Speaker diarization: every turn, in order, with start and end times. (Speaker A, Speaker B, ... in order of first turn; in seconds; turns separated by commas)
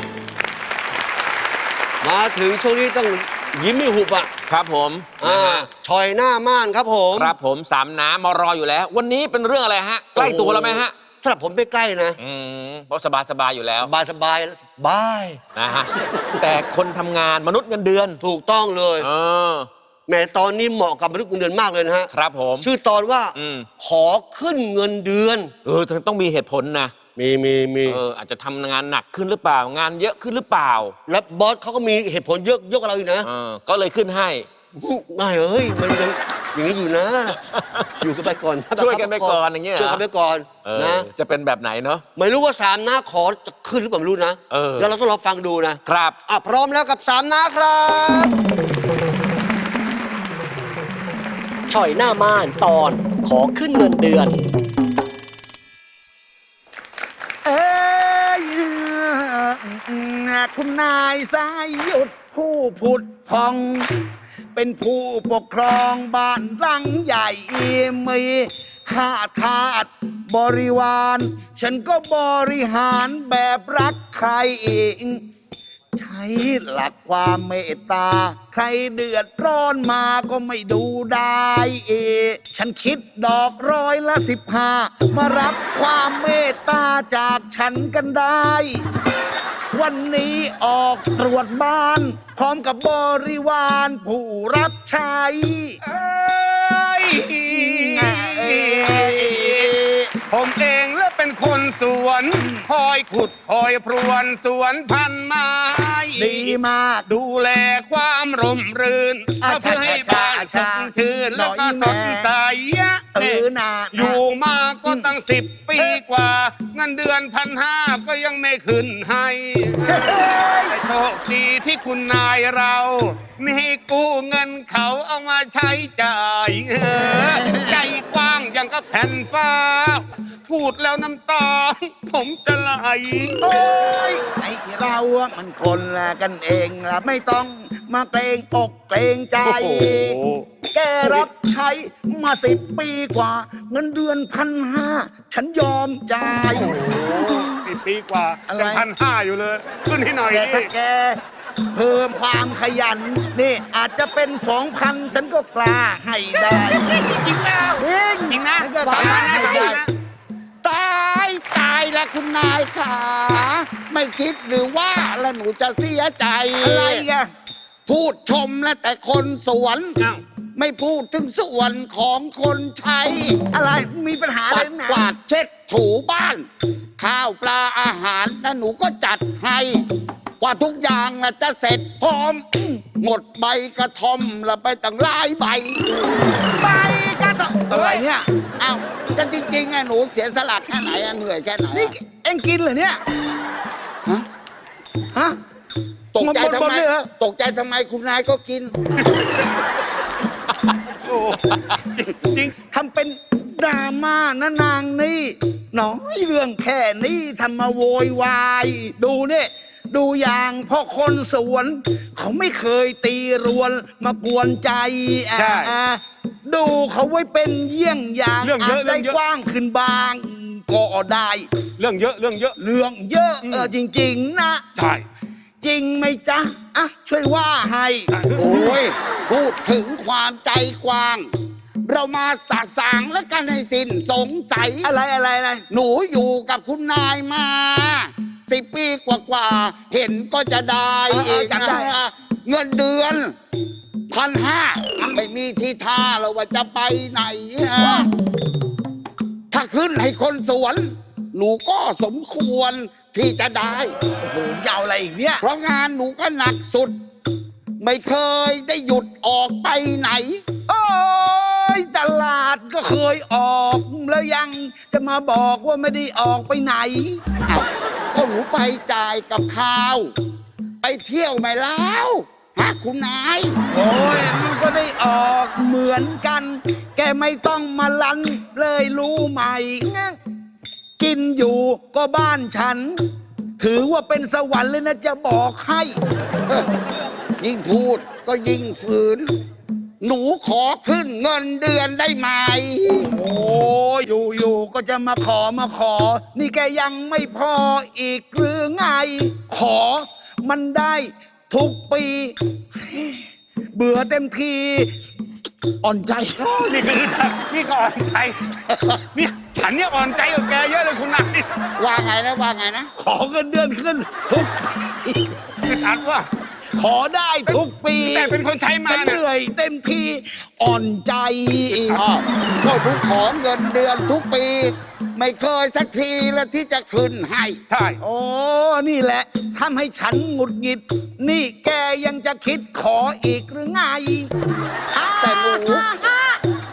Speaker A: 2.0-4.3, Speaker B: 4.5-5.7, Speaker A: 5.2-7.3, Speaker B: 7.1-10.9, Speaker A: 10.1-12.2, Speaker B: 12.2-13.9, Speaker A: 13.8-15.4, Speaker B: 15.5-18.2, Speaker A: 18.2-19.1, Speaker B: 19.0-19.7, Speaker A: 20.1-22.1, Speaker B: 22.1-22.7, Speaker A: 22.6-25.5, Speaker B: 23.3-23.7, Speaker B: 25.6-26.9, Speaker A: 27.1-28.0, Speaker B: 27.9-30.9, Speaker A: 31.1-33.3, Speaker B: 33.2-34.5, Speaker A: 34.7-37.4, Speaker B: 37.4-37.9, Speaker A: 38.0-41.1, Speaker B: 38.7-40.0, Speaker B: 40.6-42.0, Speaker A: 42.1-48.3, Speaker B: 44.5-44.9, Speaker B: 45.8-46.2, Speaker C: 51.7-54.4, Speaker D: 57.4-63.9, Speaker D: 64.5-75.2, Speaker D: 76.0-88.8, Speaker D: 89.7-95.8, Speaker E: 95.8-99.7, Speaker D: 97.3-100.1, Speaker E: 100.3-133.5, Speaker D: 102.4-102.7, Speaker D: 106.2-107.0, Speaker D: 109.4-112.3, Speaker D: 113.1-114.2, Speaker D: 114.8-115.1, Speaker D: 115.7-116.0, Speaker D: 119.8-120.7, Speaker D: 127.0-127.9, Speaker D: 133.4-140.2, Speaker E: 139.4-140.4, Speaker D: 140.7-147.6, Speaker E: 146.5-150.7, Speaker D: 148.5-148.9, Speaker D: 150.3-151.2, Speaker D: 151.7-157.0, Speaker E: 156.9-159.9, Speaker D: 157.8-159.8, Speaker F: 158.8-159.8, Speaker F: 160.6-167.1, Speaker D: 166.6-167.3, Speaker F: 167.8-169.9, Speaker F: 170.6-173.4, Speaker D: 173.5-175.1, Speaker F: 174.5-176.5, Speaker F: 177.0-179.8, Speaker F: 180.4-182.4, Speaker F: 183.0-185.8, Speaker D: 186.6-188.3, Speaker F: 187.7-188.0, Speaker F: 188.6-191.9, Speaker D: 191.7-193.0, Speaker F: 196.1-199.0, Speaker D: 196.2-197.1, Speaker E: 199.0-199.4, Speaker E: 201.0-202.5, Speaker D: 202.7-221.5, Speaker E: 215.3-215.7, Speaker E: 218.4-219.2, Speaker E: 221.8-222.6, Speaker D: 222.6-224.6, Speaker E: 223.4-223.7, Speaker E: 224.8-225.0, Speaker D: 225.6-228.1, Speaker E: 228.1-228.4, Speaker F: 228.3-231.3, Speaker F: 231.8-234.9, Speaker D: 234.8-235.6, Speaker F: 235.7-243.3, Speaker D: 241.1-241.9, Speaker F: 244.1-248.1, Speaker D: 245.0-245.2, Speaker D: 247.8-248.1, Speaker F: 249.5-253.9, Speaker D: 254.2-255.4, Speaker F: 255.4-256.9, Speaker F: 257.8-260.4, Speaker D: 260.7-267.2, Speaker F: 267.5-270.1, Speaker F: 270.8-273.5, Speaker D: 273.7-280.2, Speaker D: 281.0-283.0, Speaker D: 283.6-286.0, Speaker F: 287.4-289.3, Speaker F: 290.0-293.1, Speaker D: 293.1-304.9, Speaker D: 305.8-306.9, Speaker E: 306.4-311.5, Speaker F: 311.8-312.9, Speaker D: 313.0-315.4, Speaker E: 315.6-316.3, Speaker D: 316.7-322.0, Speaker E: 317.5-319.2, Speaker F: 321.9-327.6, Speaker E: 327.7-328.0, Speaker D: 328.0-334.3, Speaker D: 334.9-336.4, Speaker F: 335.2-335.9